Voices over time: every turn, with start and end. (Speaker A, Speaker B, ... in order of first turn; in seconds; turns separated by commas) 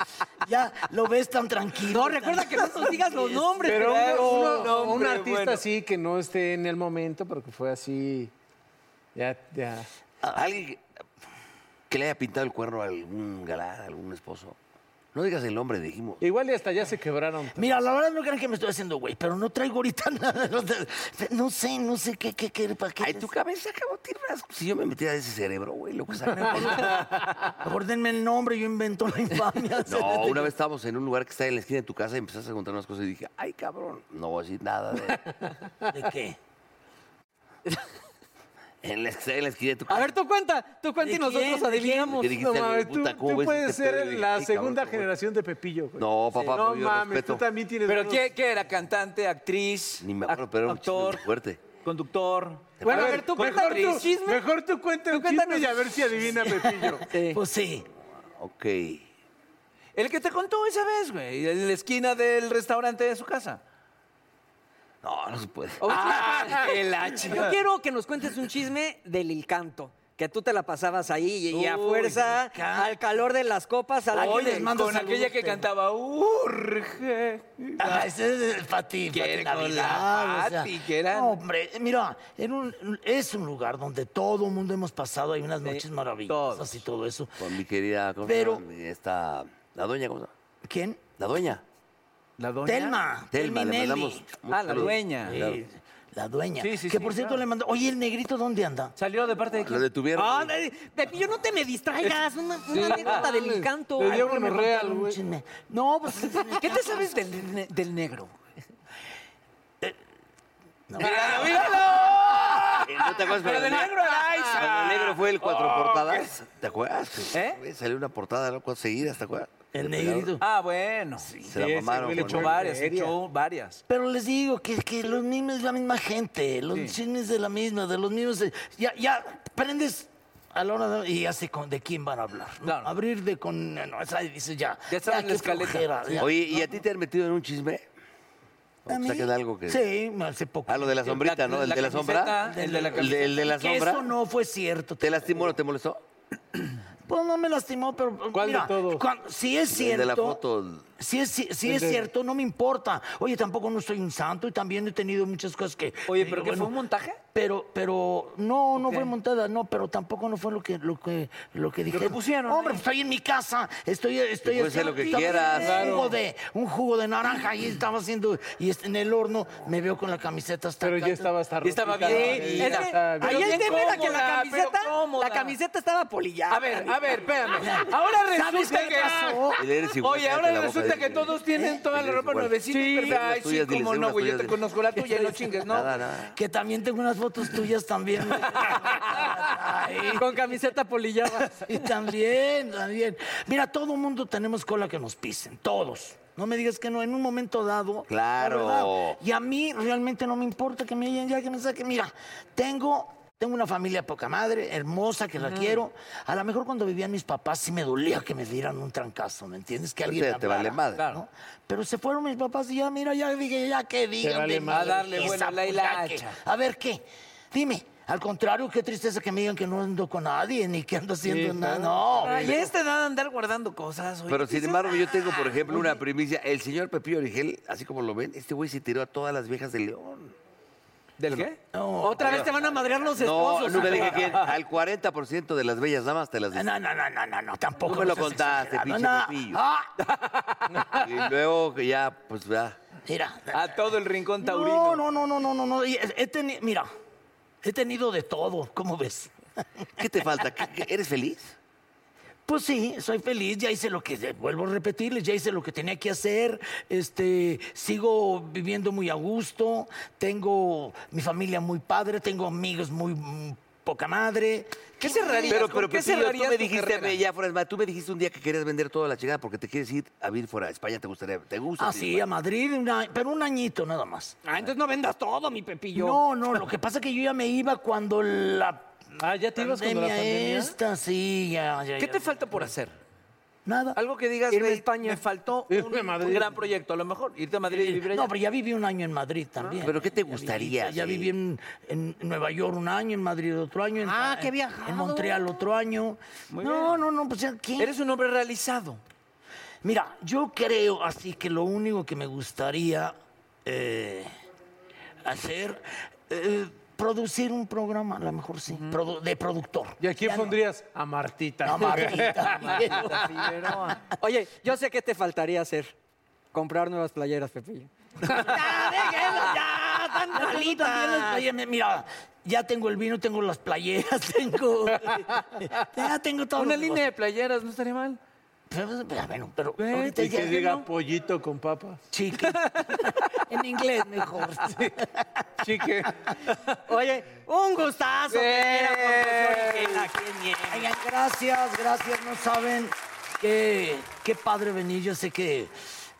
Speaker A: 0.4-3.6, Speaker B: 1.8-5.0, Speaker C: 3.6-8.3, Speaker D: 3.7-5.7, Speaker C: 9.2-9.9, Speaker A: 10.2-10.5, Speaker E: 10.3-10.8, Speaker E: 11.9-14.6, Speaker E: 15.1-16.2, Speaker C: 16.2-17.8, Speaker A: 17.6-23.3, Speaker E: 23.0-27.2, Speaker A: 26.4-27.0, Speaker A: 27.6-30.5, Speaker E: 29.9-35.2, Speaker A: 35.9-36.4, Speaker E: 38.8-40.1, Speaker B: 39.9-42.4, Speaker A: 41.0-42.1, Speaker E: 42.1-45.1, Speaker C: 42.3-48.2, Speaker E: 46.0-47.4, Speaker D: 47.9-51.2, Speaker E: 50.0-51.6, Speaker D: 51.8-54.0, Speaker B: 52.8-54.5, Speaker C: 52.9-57.1, Speaker B: 55.1-56.0, Speaker A: 56.5-57.9, Speaker B: 57.1-57.4, Speaker E: 58.4-59.0, Speaker D: 60.0-63.6, Speaker E: 65.0-65.9, Speaker B: 65.8-74.8, Speaker D: 65.9-67.5, Speaker D: 71.5-72.3, Speaker A: 72.5-73.0, Speaker A: 74.1-75.7, Speaker D: 74.1-78.1, Speaker A: 77.8-87.5, Speaker D: 79.1-81.4, Speaker D: 85.6-86.9, Speaker E: 87.4-90.3, Speaker A: 88.2-88.6, Speaker A: 90.6-91.0, Speaker E: 91.2-91.6, Speaker D: 92.4-93.0, Speaker A: 92.7-94.3, Speaker E: 93.3-95.6, Speaker D: 94.5-95.4, Speaker A: 95.2-99.0, Speaker D: 96.6-97.4, Speaker D: 99.0-99.8, Speaker E: 99.6-100.6, Speaker B: 100.2-104.5, Speaker C: 102.7-105.2, Speaker D: 102.9-103.3, Speaker A: 104.1-107.0, Speaker D: 106.5-108.4, Speaker A: 110.9-112.6, Speaker D: 111.0-116.3, Speaker E: 112.5-114.0, Speaker E: 114.5-120.3, Speaker D: 117.3-117.6, Speaker A: 119.7-120.4, Speaker D: 120.4-123.8, Speaker E: 121.5-122.6, Speaker C: 121.7-123.1, Speaker A: 123.9-136.4, Speaker D: 126.7-127.0, Speaker D: 132.6-132.9, Speaker D: 134.9-136.3, Speaker E: 136.2-137.9, Speaker E: 138.9-139.8, Speaker A: 138.9-140.9, Speaker E: 140.7-144.1, Speaker D: 141.0-143.2, Speaker A: 142.4-145.5, Speaker E: 145.0-146.0, Speaker A: 147.1-150.4, Speaker C: 148.3-149.1, Speaker E: 149.7-150.9, Speaker A: 151.0-156.8, Speaker C: 151.7-152.1, Speaker D: 156.1-157.2, Speaker A: 157.3-171.3, Speaker D: 158.8-159.1, Speaker D: 161.9-162.8, Speaker E: 164.4-166.0, Speaker D: 164.8-165.5, Speaker C: 165.5-166.2, Speaker C: 170.8-173.6, Speaker D: 171.6-175.6, Speaker B: 172.1-177.2, Speaker D: 176.5-186.1, Speaker A: 177.6-179.6, Speaker E: 179.6-184.6, Speaker A: 181.5-181.8, Speaker B: 182.7-183.2, Speaker B: 185.0-185.4, Speaker E: 185.6-186.4, Speaker A: 186.3-190.4, Speaker D: 188.5-189.3, Speaker B: 190.0-191.6, Speaker A: 191.3-222.7, Speaker E: 198.1-199.2, Speaker D: 205.4-205.8, Speaker E: 210.1-211.1, Speaker D: 211.0-211.2, Speaker C: 214.2-215.4, Speaker D: 214.7-216.4, Speaker C: 221.2-222.5, Speaker D: 222.2-225.7, Speaker E: 224.3-230.3, Speaker D: 231.2-231.6, Speaker A: 231.7-233.2, Speaker B: 232.0-234.4, Speaker E: 232.2-236.7, Speaker D: 233.8-234.5, Speaker A: 236.5-239.9, Speaker E: 237.8-239.6, Speaker D: 240.1-240.4, Speaker E: 241.0-242.8, Speaker A: 243.1-246.9, Speaker D: 243.5-245.0, Speaker A: 247.6-249.3, Speaker E: 250.0-251.6, Speaker A: 252.5-265.7, Speaker D: 265.0-267.2, Speaker E: 265.5-272.3, Speaker A: 271.8-274.4, Speaker B: 274.4-276.2, Speaker A: 275.9-279.0, Speaker C: 279.2-280.8, Speaker A: 279.6-282.5, Speaker D: 282.0-282.9, Speaker A: 283.6-284.0, Speaker D: 283.9-288.3, Speaker B: 284.5-285.2, Speaker C: 285.7-286.6, Speaker A: 287.7-297.9, Speaker E: 289.8-291.3, Speaker B: 294.0-295.4, Speaker D: 296.5-297.0, Speaker D: 297.8-299.0, Speaker A: 299.8-304.3, Speaker A: 305.2-310.6, Speaker D: 308.7-309.0, Speaker C: 310.0-313.0, Speaker A: 311.6-313.9, Speaker D: 312.2-314.0, Speaker B: 314.2-315.9, Speaker B: 316.5-321.5, Speaker A: 318.2-319.4, Speaker D: 318.4-319.6, Speaker A: 320.3-327.1, Speaker C: 325.0-325.8, Speaker D: 326.6-328.2, Speaker A: 328.7-330.6, Speaker D: 329.8-330.9, Speaker C: 330.0-332.0, Speaker A: 332.1-335.4, Speaker B: 332.6-333.0, Speaker D: 335.6-336.8, Speaker B: 336.9-340.9, Speaker D: 338.3-340.1, Speaker A: 340.6-345.7